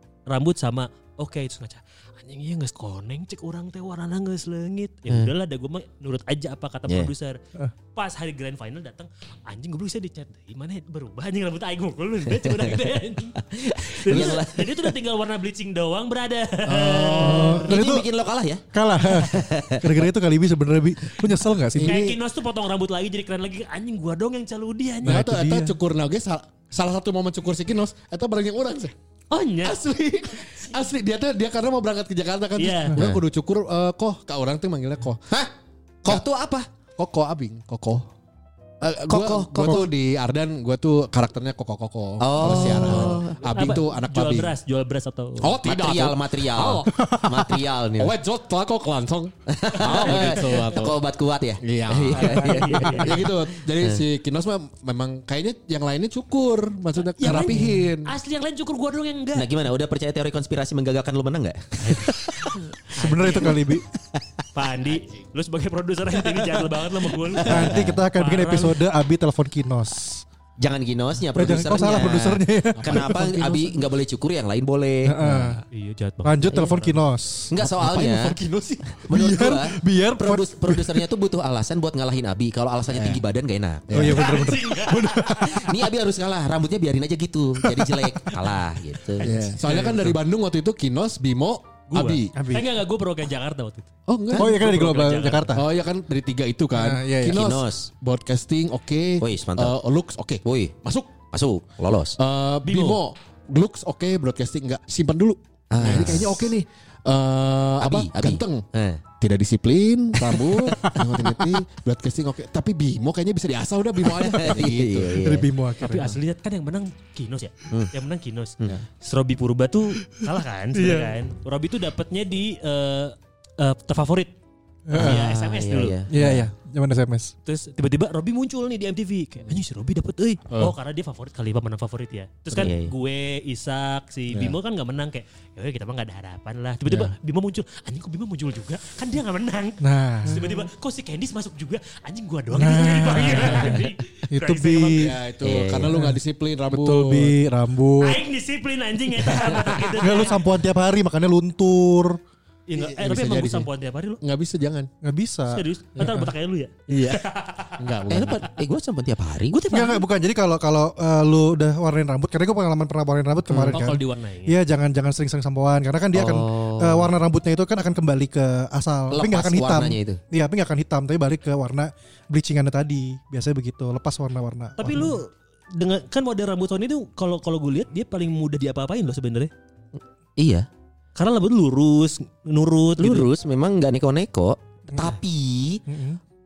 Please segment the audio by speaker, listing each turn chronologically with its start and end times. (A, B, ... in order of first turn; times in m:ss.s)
0:00.3-0:07.4 A
0:07.9-0:17.7 A
0:12.4-0:14.9 B
0:16.7-0:17.6 C
0:17.2-0:18.1 D
0:17.3-0:20.0 B
0:18.7-0:22.0 D
0:21.7-0:22.2 C
0:21.8-0:25.2 A
0:25.0-0:25.8 D
0:25.0-0:28.9 C
0:29.3-0:29.8 A
0:29.6-0:35.2 C
0:32.6-0:33.0 A
0:36.0-0:36.6 B
0:37.0-0:38.0 C
0:38.8-0:44.5 C
0:39.1-0:39.9 B
0:42.2-0:43.4 B
0:42.4-0:42.9 D
0:43.5-0:45.6 A
0:45.4-0:47.2 C
0:45.6-0:48.1 B
0:47.0-0:47.5 D
0:48.0-0:51.0 C
0:49.5-0:54.0 B
0:49.8-0:50.6 A
0:51.6-0:58.1 C
0:52.1-0:53.2 A
0:57.2-0:59.5 A
0:57.4-0:57.9 D
0:59.3-1:02.6 B
1:02.9-1:03.5 A
1:03.0-1:03.8 D
1:04.5-1:08.8 A
1:07.3-1:08.0 B
1:07.4-1:10.2 D
1:10.6-1:15.2 B
1:11.3-1:13.2 D
1:12.7-1:13.8 C
1:15.0-1:15.6 D
1:15.2-1:15.6 C
1:15.7-1:17.0 A
1:16.2-1:17.5 D
1:17.5-1:18.4 B
1:17.6-1:19.0 C
1:19.1-1:24.2 B
1:19.1-1:21.0 D
1:22.9-1:23.2 C
1:23.9-1:24.3 C
1:23.9-1:25.6 D
1:24.1-1:25.6 A
1:25.5-1:29.3 B
1:29.2-1:30.0 A
1:29.2-1:32.3 C
1:29.7-1:30.0 D
1:31.9-1:35.6 A
1:32.3-1:32.7 D
1:34.1-1:34.6 C
1:34.3-1:35.6 D
1:35.5-1:41.1 C
1:36.7-1:37.4 D
1:37.2-1:37.9 B
1:39.2-1:39.7 B
1:40.4-1:42.2 B
1:42.2-1:48.6 C
1:42.6-1:43.0 A
1:45.7-1:46.5 B
1:47.8-1:49.0 B
1:49.2-1:55.2 C
1:50.2-1:51.6 B
1:54.0-1:55.5 B
1:55.2-1:56.2 D
1:55.8-2:04.3 A
2:00.7-2:01.1 D
2:04.9-2:05.2 D
2:04.9-2:06.0 A
2:04.9-2:06.2 B
2:06.1-2:07.3 D
2:06.2-2:06.4 C
2:07.4-2:25.2 A
2:12.5-2:12.9 B
2:14.3-2:14.6 C
2:19.8-2:20.6 D
2:22.5-2:25.2 D
2:25.0-2:27.4 C
2:25.4-2:26.0 B
2:25.8-2:28.2 D
2:28.0-2:30.4 A
2:29.9-2:32.2 D
2:32.7-2:34.2 A
2:32.7-2:33.7 C
2:34.2-2:34.9 C
2:35.0-2:36.3 D
2:35.5-2:37.8 A
2:36.9-2:37.2 C
2:37.8-2:38.4 C
2:38.1-2:40.0 B
2:39.7-2:40.0 A
2:39.7-2:55.1 D
2:43.5-2:43.8 B
2:43.7-2:44.6 A
2:46.1-2:47.1 B
2:49.1-2:50.2 B
2:54.8-2:59.5 A
3:00.4-3:00.6 B
3:01.2-3:03.3 A
3:03.0-3:05.8 B
3:05.9-3:06.2 D